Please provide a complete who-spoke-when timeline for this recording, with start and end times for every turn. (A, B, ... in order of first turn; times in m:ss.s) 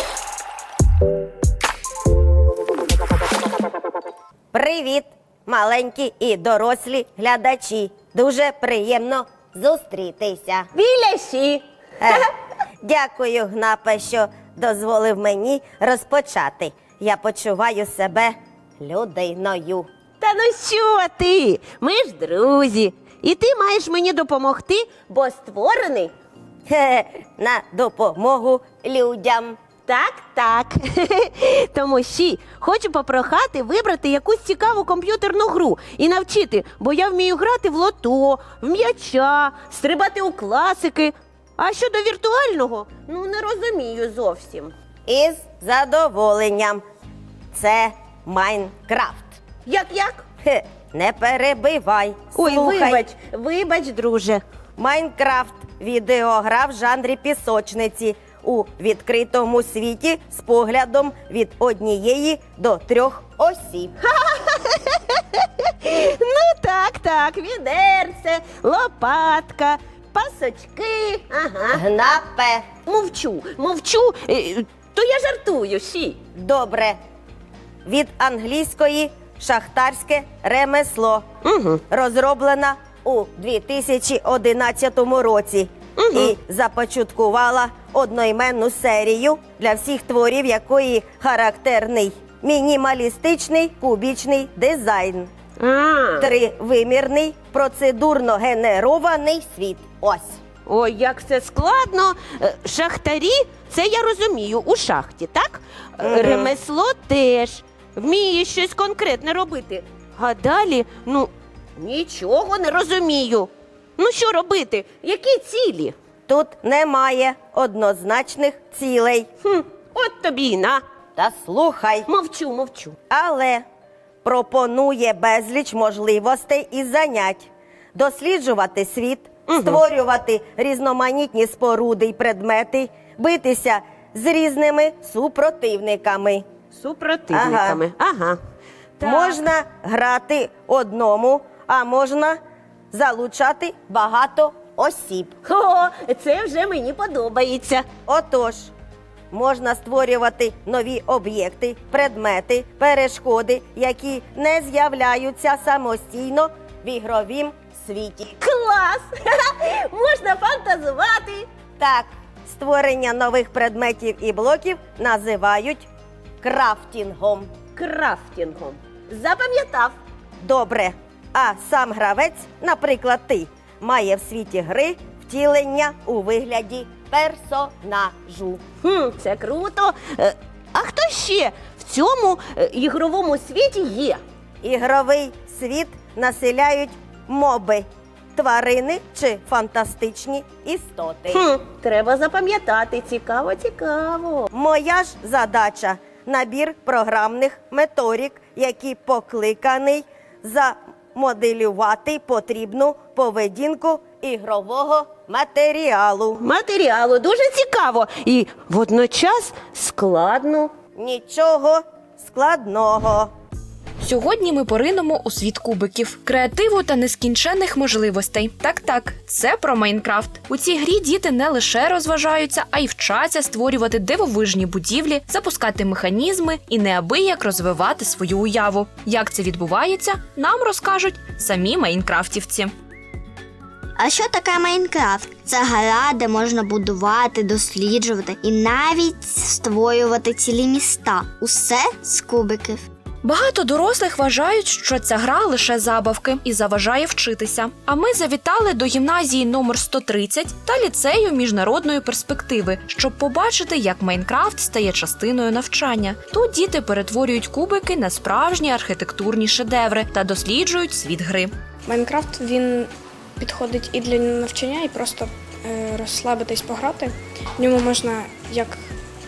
0:04.5-0:10.7 A
0:10.7-0:12.1 B
0:12.0-0:12.3 A
0:12.8-0:19.9 A
0:20.2-0:26.1 B
0:26.7-0:29.6 A
0:29.9-0:44.7 B
0:45.1-0:46.8 A
0:47.5-0:49.4 A
0:49.6-0:50.2 B
0:50.4-0:53.0 A
0:52.3-0:54.4 B
0:54.8-1:03.9 A
1:04.0-1:05.0 B
1:05.7-1:11.8 B
1:11.7-1:12.7 A
1:12.8-1:16.2 B
1:16.3-1:17.0 A
1:17.8-1:21.2 A
1:21.4-1:21.8 B
1:21.9-1:35.3 A
1:26.0-1:26.3 B
1:35.6-1:36.3 B
1:36.2-1:40.4 A
1:40.6-1:55.9 B
1:46.0-1:46.5 A
1:56.3-1:59.3 A
1:59.4-2:00.8 B
2:01.2-2:02.1 A
2:02.1-2:02.9 B
2:03.1-2:03.6 A
2:04.2-2:16.4 A
2:09.5-2:09.8 B
2:16.8-2:18.4 B
2:17.3-2:17.8 A
2:19.0-2:19.4 B
2:19.0-2:22.4 A
2:22.9-2:25.3 A
2:25.4-2:27.9 B
2:28.0-2:28.7 A
2:29.3-2:38.3 A
2:38.4-2:41.5 B
2:41.8-2:45.9 A
2:46.4-2:47.5 A
2:47.8-2:49.9 B
2:50.4-2:58.6 A
2:58.8-3:04.2 B
3:04.6-3:11.4 A
3:11.3-3:14.5 B
3:14.5-3:26.4 A
3:26.4-3:30.7 B
3:31.0-3:33.3 A
3:34.0-3:52.7 C
3:54.0-4:02.8 D
4:03.2-4:21.5 C
4:21.9-4:28.8 E